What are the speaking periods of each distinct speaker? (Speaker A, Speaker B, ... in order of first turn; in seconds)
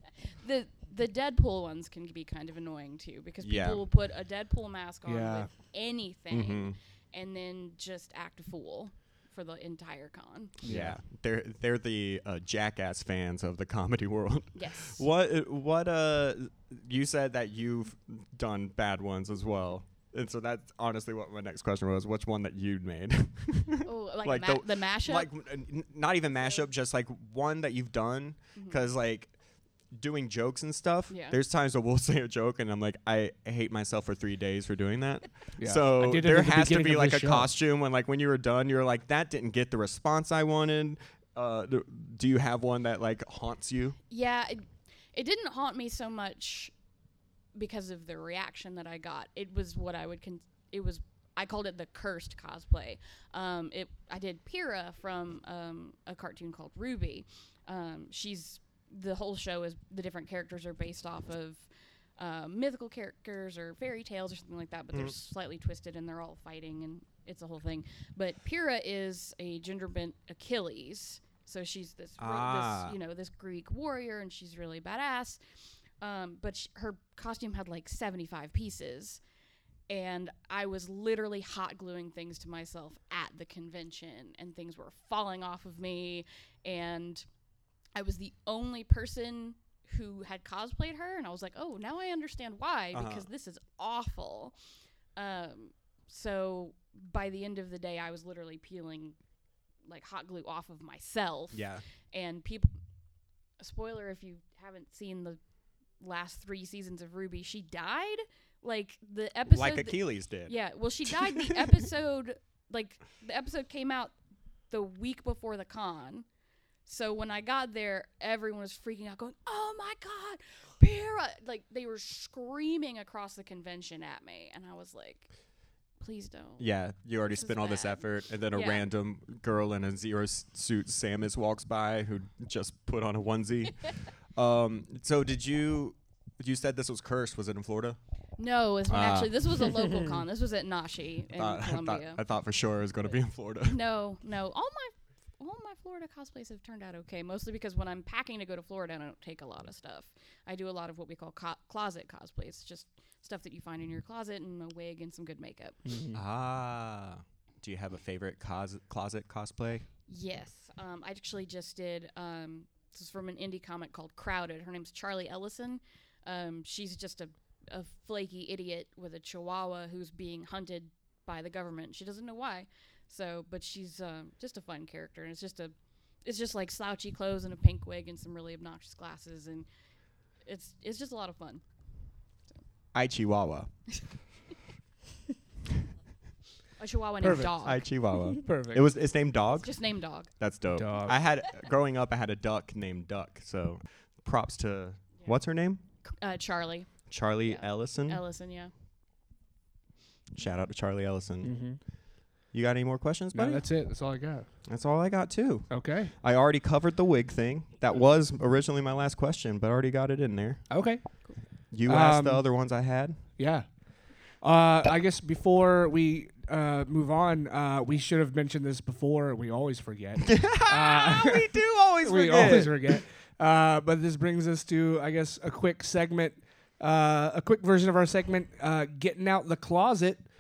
Speaker A: 0.3-10.6, 14.6-15.1, 23.8-25.3, 28.6-28.8, 31.1-31.4, 44.1-46.7, 47.5-75.4, 76.0-79.2, 79.9-87.2, 88.0-94.6, 95.2-99.2, 99.8-102.7, 103.6-105.4, 106.0-114.2, 114.7-116.3, 116.9-125.3, 126.0-126.7, 127.2-128.9, 138.4-142.2, 143.7-155.8, 160.1-179.7, 180.4-181.6, 186.8-187.9, 189.6-190.3, 196.1-196.9, 197.4-198.7
Speaker B: 3.4-3.8, 6.3-6.8, 10.7-29.3, 29.9-44.0, 72.2-73.0, 92.9-93.3, 101.5-101.8, 109.5-110.5, 111.1-111.8, 126.6-138.0, 138.9-139.5, 141.3-143.8, 156.1-159.9, 182.9-183.7, 187.6-189.7, 190.4-195.8, 197.1-198.2, 200.3-201.6, 202.5-203.7, 204.7-210.7, 211.7-213.2, 220.2-223.0
Speaker C: 5.1-5.5, 10.6-11.0, 35.6-37.5, 155.9-156.2, 187.2-187.5, 188.4-188.8, 190.8-191.2, 201.4-201.8, 203.3-204.5, 205.7-206.1, 210.7-211.0, 211.9-212.4, 213.4-213.7, 214.4-230.2